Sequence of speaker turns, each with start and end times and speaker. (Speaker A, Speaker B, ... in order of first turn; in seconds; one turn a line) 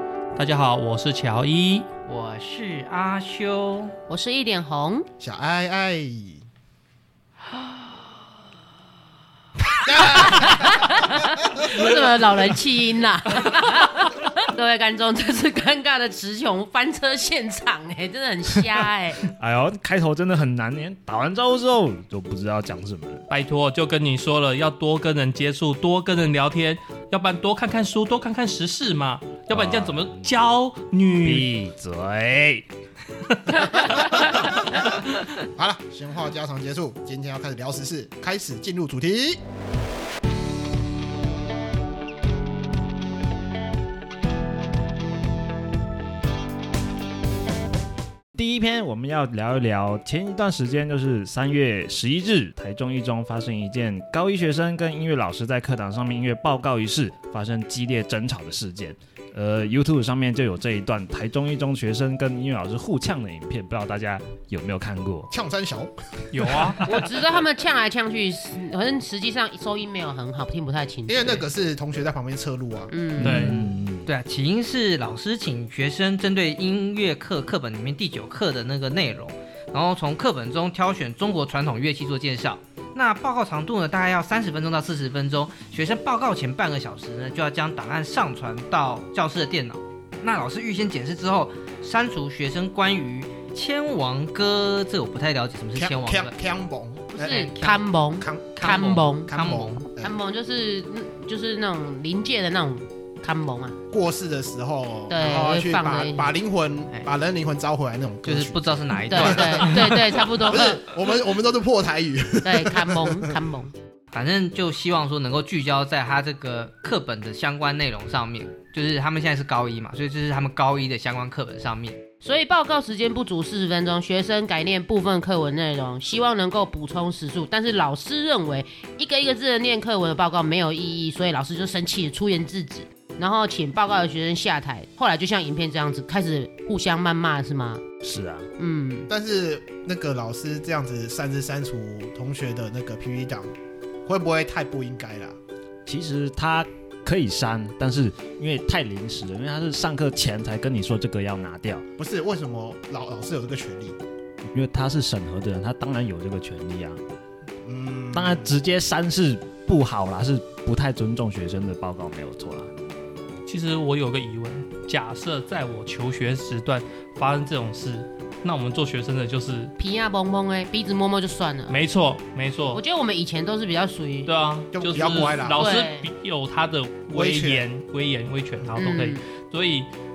Speaker A: 0.4-1.9
Speaker B: 2.1-4.0
Speaker C: 4.1-5.1
Speaker D: 5.2-6.5
Speaker C: 9.7-19.2
Speaker D: 9.9-11.0
Speaker E: 19.3-23.2
Speaker A: 23.3-31.5
Speaker E: 29.5-30.4
Speaker E: 31.2-32.7
Speaker A: 33.4-34.2
Speaker D: 35.4-39.4
Speaker E: 48.3-65.3
Speaker D: 65.3-66.8
Speaker A: 66.3-66.8
Speaker C: 66.8-71.4
Speaker D: 71.1-72.9
Speaker C: 72.9-73.4
Speaker E: 73.2-74.1
Speaker A: 73.2-73.6
Speaker B: 73.2-96.3
Speaker D: 95.8-97.5
Speaker C: 97.1-99.3
Speaker B: 97.2-97.8
Speaker D: 98.2-100.1
Speaker B: 98.5-99.8
Speaker C: 100.0-103.8
Speaker D: 103.9-113.3
Speaker C: 105.1-106.3
Speaker B: 108.2-109.9
Speaker C: 109.1-110.9
Speaker C: 112.4-113.7
Speaker B: 114.1-122.0
Speaker C: 122.2-137.8
Speaker E: 138.0-138.5
Speaker C: 138.6-139.1
Speaker D: 139.1-143.5
Speaker D: 144.1-145.4
Speaker E: 145.9-151.8
Speaker D: 152.0-154.0
Speaker E: 154.4-157.0
Speaker D: 157.6-158.5
Speaker E: 158.1-162.7
Speaker A: 163.5-169.7
Speaker C: 169.8-171.8
Speaker A: 171.7-172.8
Speaker C: 172.7-174.3
Speaker A: 174.3-179.9
Speaker D: 174.7-175.8
Speaker C: 175.6-176.1
Speaker D: 177.1-177.6
Speaker C: 178.8-179.2